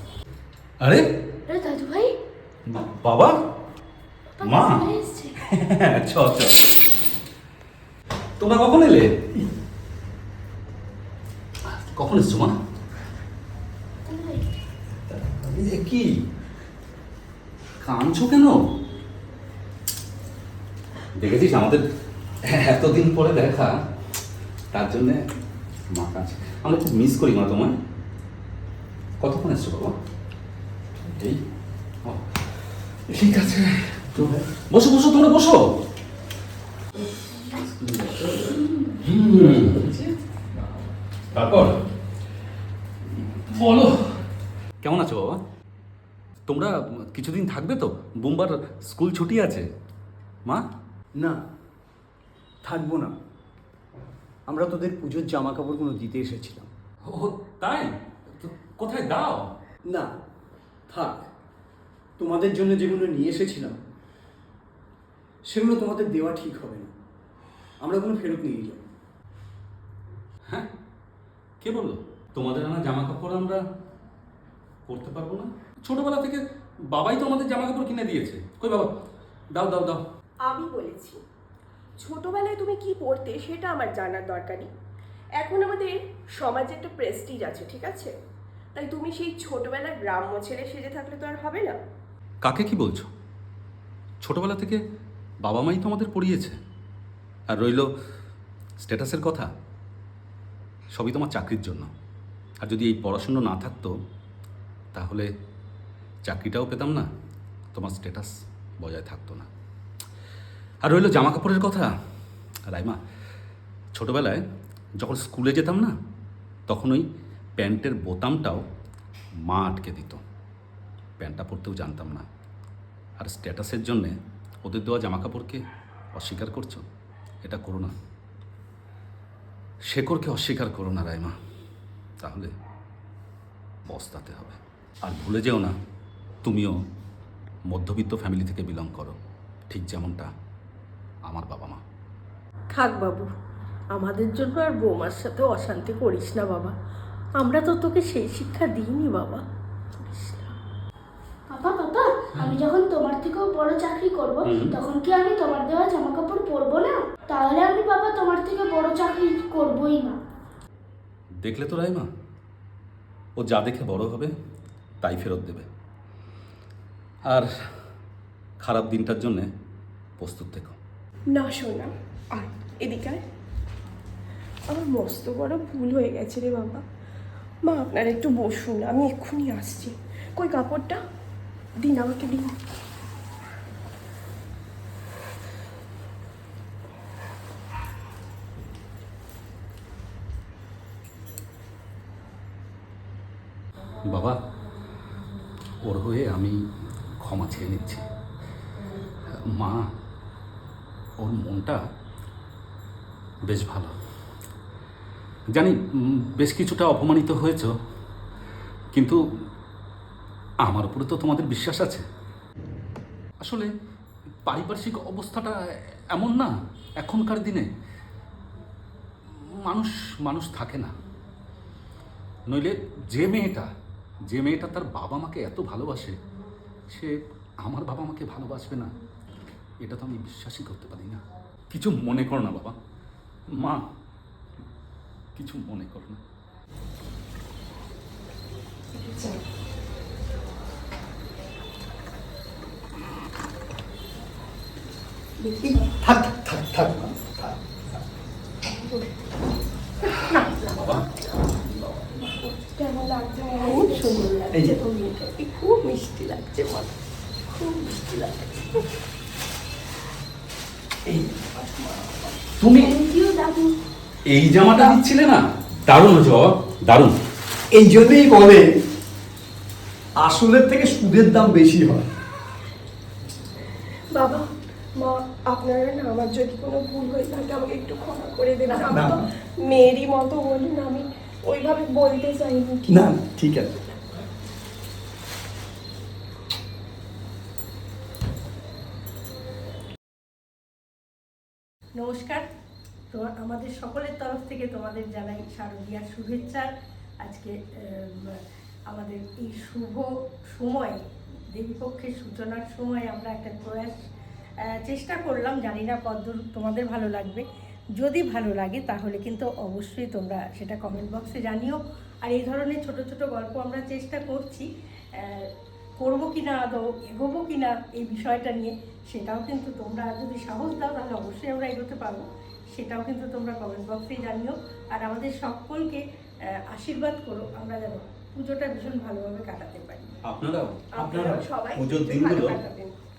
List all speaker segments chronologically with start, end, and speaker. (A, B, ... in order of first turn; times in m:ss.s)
0:01.5-0:02.1 A
0:02.6-0:03.4 B
0:04.4-0:05.4 A
0:04.4-0:04.9 B
0:05.5-0:06.6 B
0:08.4-0:09.1 B
0:11.6-0:12.6 B
0:14.0-0:14.4 A
0:15.3-0:16.1 B
0:17.8-0:18.6 B
0:21.2-0:21.8 B
0:22.4-0:23.8 B
0:24.7-0:25.2 B
0:25.9-0:27.8 B
0:29.2-0:29.9 B
0:31.1-0:31.4 B
0:33.1-0:35.8 B
0:39.0-0:40.0 B
0:41.3-0:41.8 B
0:43.3-0:44.2 B
0:44.8-0:45.4 B
0:46.5-0:49.7 B
0:52.6-0:53.1 C
0:54.5-0:56.7 C
0:57.1-0:59.5 B
1:00.9-1:01.3 C
1:02.2-1:03.8 C
1:05.4-1:06.9 C
1:07.8-1:08.8 C
1:11.6-1:13.6 B
1:14.9-1:16.4 B
1:16.9-1:18.9 B
1:19.5-1:20.0 B
1:20.4-1:21.2 D
1:22.0-1:24.7 D
1:25.4-1:28.1 D
1:28.7-1:31.8 D
1:32.4-1:33.0 B
1:34.2-1:34.8 B
1:35.4-1:36.6 B
1:37.5-1:37.9 B
1:38.8-1:39.5 B
1:41.0-1:41.9 B
1:42.6-1:43.9 B
1:44.9-1:45.3 B
1:46.2-1:47.1 B
1:47.7-1:49.5 B
1:50.8-1:51.9 B
1:52.7-1:53.0 B
1:53.9-1:54.4 B
1:55.0-1:55.9 B
1:56.7-1:57.0 B
1:57.6-1:58.6 B
1:59.5-2:00.2 B
2:01.2-2:02.2 B
2:03.2-2:05.6 B
2:06.1-2:06.8 B
2:07.4-2:07.9 B
2:09.9-2:11.3 B
2:12.2-2:12.5 B
2:13.9-2:15.7 B
2:16.4-2:16.7 B
2:17.7-2:19.2 B
2:19.7-2:20.3 B
2:21.3-2:21.8 B
2:22.7-2:23.3 E
2:23.9-2:26.7 E
2:27.4-2:30.5 E
2:31.5-2:40.2 A
2:34.4-2:34.8 B
2:41.4-2:42.1 B
2:43.4-2:44.3 B
2:45.0-2:45.7 B
2:48.6-2:49.5 B
2:50.2-2:50.8 B
2:51.3-2:53.2 D
2:54.7-2:56.8 D
2:57.6-3:01.0 D
3:01.8-3:02.5 D
3:14.1-3:14.4 B
3:15.8-3:16.6 B
3:17.2-3:18.0 B
3:19.5-3:19.9 B
3:21.2-3:21.8 B
3:23.5-3:23.9 B
3:25.5-3:27.7 B
3:30.6-3:32.0 B
3:33.4-3:33.7 B
3:34.5-3:35.5 B
3:36.1-3:37.7 B
3:39.6-3:40.9 B
3:42.5-3:43.7 B
3:44.3-3:46.2 B
3:46.9-3:48.9 B
3:49.8-3:51.2 B
3:51.7-3:52.8 B
3:53.5-3:53.8 B
3:55.4-3:56.2 B
3:59.0-3:59.4 D
4:05.4-4:05.9 D
4:06.0-4:07.6 C
4:08.7-4:09.3 D
4:10.4-4:10.9 D
4:12.2-4:16.9 D
4:13.6-4:14.4 E
4:14.5-4:14.8 C
4:17.5-4:18.8 D
4:21.0-4:21.9 C
4:22.6-4:23.0 B
4:22.8-4:23.7 A
4:24.3-4:27.1 B
4:27.7-4:28.7 C
4:30.2-4:32.0 C
4:34.1-4:43.1 D
4:38.9-4:39.2 C
4:42.9-4:44.0 C
4:52.0-4:52.5 E
4:53.1-4:58.4 E
4:58.9-5:01.0 E
5:01.5-5:04.1 E
5:04.7-5:07.4 E
5:08.0-5:26.0 E
5:26.7-5:30.1 E
5:30.2-5:32.6 B
5:30.9-5:33.0 D